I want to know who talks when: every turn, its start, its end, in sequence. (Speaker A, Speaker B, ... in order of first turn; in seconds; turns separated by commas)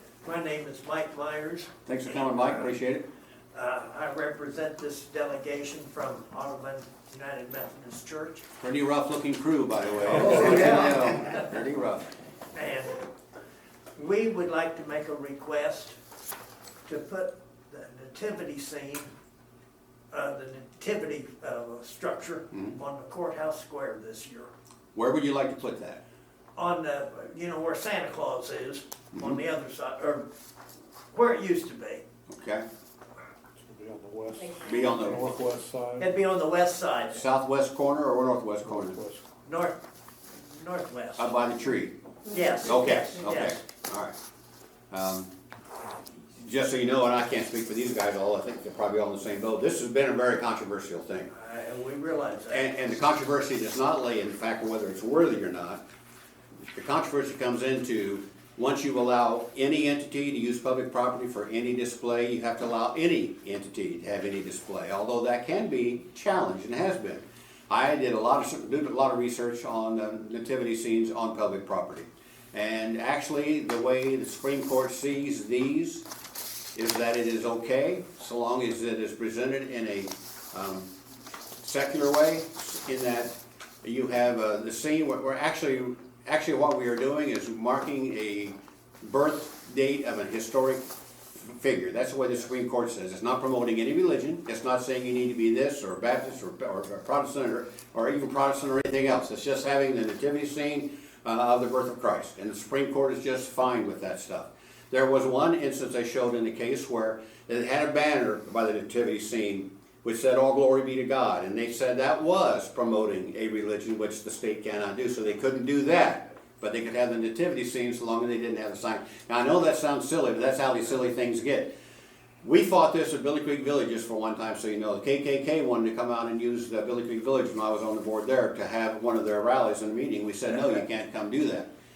Speaker A: 0.2-2.6, Speaker B: 1.9-3.0, Speaker A: 3.5-8.5, Speaker B: 8.6-12.1, Speaker A: 10.0-11.4, Speaker A: 12.5-13.0, Speaker A: 14.0-16.0, Speaker A: 16.9-19.1, Speaker A: 20.1-24.5, Speaker B: 24.9-26.0, Speaker A: 26.6-30.3, Speaker A: 31.1-32.0, Speaker B: 32.3-32.6, Speaker C: 33.6-36.1, Speaker B: 34.6-35.3, Speaker A: 36.0-37.2, Speaker B: 37.1-39.0, Speaker C: 38.8-39.2, Speaker A: 39.5-41.3, Speaker B: 41.2-41.9, Speaker A: 42.3-43.6, Speaker B: 42.6-44.1, Speaker B: 44.9-45.3, Speaker B: 46.4-51.3, Speaker A: 51.3-52.7, Speaker B: 52.5-55.8, Speaker B: 56.7-76.1, Speaker B: 76.8-80.9, Speaker B: 81.6-90.9, Speaker B: 91.4-121.7, Speaker B: 122.4-131.7